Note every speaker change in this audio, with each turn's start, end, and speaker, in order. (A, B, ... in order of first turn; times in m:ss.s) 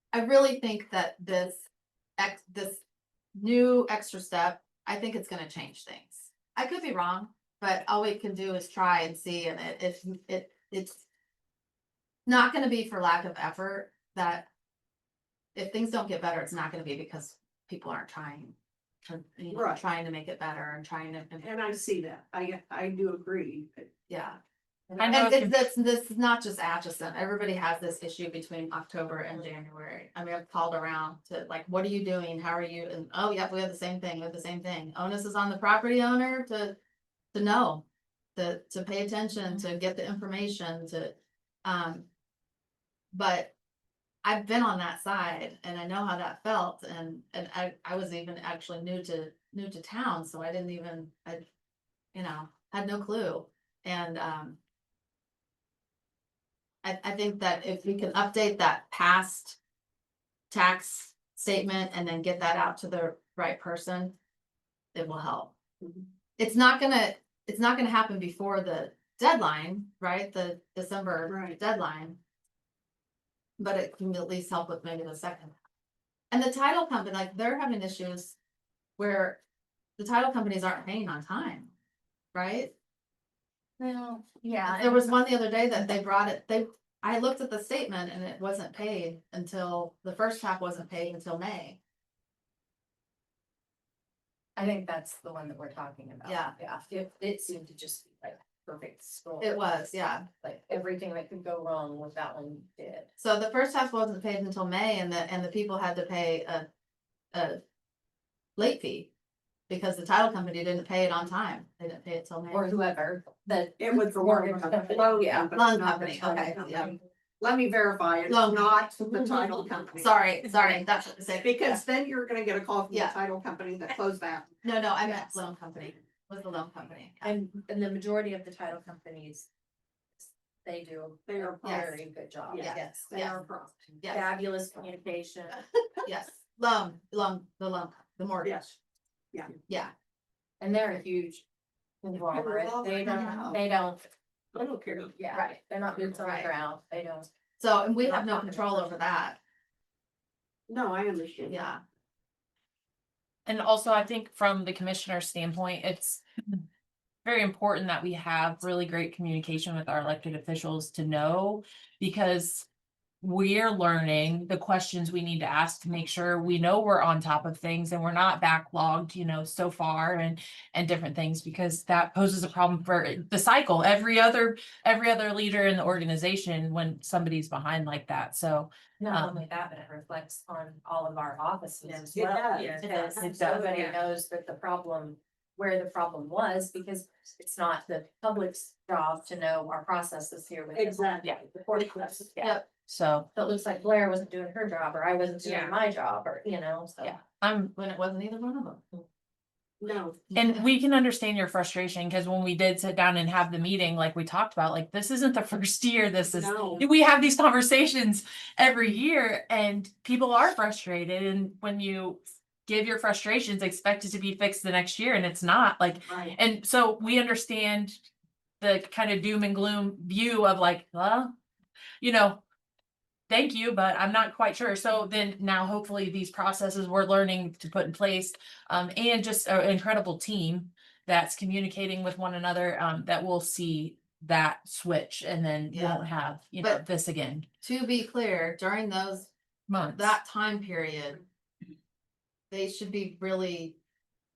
0:00.1-0:01.6 A
0:02.2-0:02.8 A
0:03.4-0:11.1 A
0:12.3-0:14.5 A
0:15.6-0:21.4 A
0:19.5-0:19.8 B
0:21.4-0:23.9 B
0:24.1-0:24.4 A
0:25.0-0:25.6 C
0:25.0-0:36.8 A
0:37.3-0:42.1 A
0:43.1-0:43.6 A
0:44.2-0:51.4 A
0:52.1-0:54.6 A
0:56.8-0:59.6 A
1:00.5-1:04.2 A
1:04.9-1:05.6 A
1:05.8-1:06.1 B
1:06.4-1:12.2 A
1:11.3-1:11.6 B
1:13.6-1:15.6 A
1:16.3-1:18.4 A
1:19.0-1:19.4 A
1:20.0-1:21.7 A
1:22.3-1:22.7 A
1:23.8-1:25.1 D
1:24.7-1:31.8 A
1:34.6-1:39.6 D
1:36.2-1:36.6 A
1:39.4-1:40.3 A
1:40.4-1:43.1 D
1:43.2-1:46.7 A
1:47.3-1:47.6 A
1:48.6-1:49.1 A
1:49.7-1:52.7 A
1:52.5-1:57.0 D
1:53.8-2:00.1 B
1:55.5-1:57.0 A
1:58.3-1:58.8 A
2:00.0-2:01.8 A
2:01.4-2:04.5 B
2:02.9-2:03.2 A
2:04.6-2:07.4 A
2:07.2-2:09.5 D
2:10.2-2:13.0 D
2:11.3-2:13.9 B
2:11.6-2:12.0 A
2:12.6-2:13.4 A
2:14.0-2:14.3 A
2:14.1-2:15.6 D
2:16.0-2:18.6 A
2:18.4-2:18.8 B
2:19.7-2:19.9 A
2:20.6-2:21.4 D
2:22.0-2:24.0 D
2:22.3-2:23.6 B
2:24.5-2:25.2 B
2:25.2-2:27.3 D
2:26.1-2:26.5 A
2:27.6-2:29.4 A
2:28.0-2:28.9 D
2:30.7-2:31.7 B
2:31.5-2:31.8 A
2:33.5-2:36.2 C
2:37.2-2:42.7 C
2:43.2-2:59.4 C
2:59.0-3:12.7 D
3:02.1-3:03.6 B
3:02.7-3:04.0 C
3:10.8-3:12.2 B
3:12.4-3:12.7 A
3:12.9-3:13.3 C
3:13.3-3:17.2 D
3:15.4-3:15.8 C
3:17.0-3:17.7 C
3:17.8-3:18.8 A
3:19.8-3:20.2 B
3:20.3-3:20.6 A
3:20.3-3:38.0 C
3:26.2-3:26.9 B
3:36.1-3:36.4 B
3:38.6-3:41.3 C
3:42.0-3:42.4 C
3:43.3-3:57.5 C
3:55.7-3:56.1 A
3:57.6-3:59.3 A
3:59.7-4:00.2 C
3:59.8-4:01.2 A
4:02.5-4:03.8 A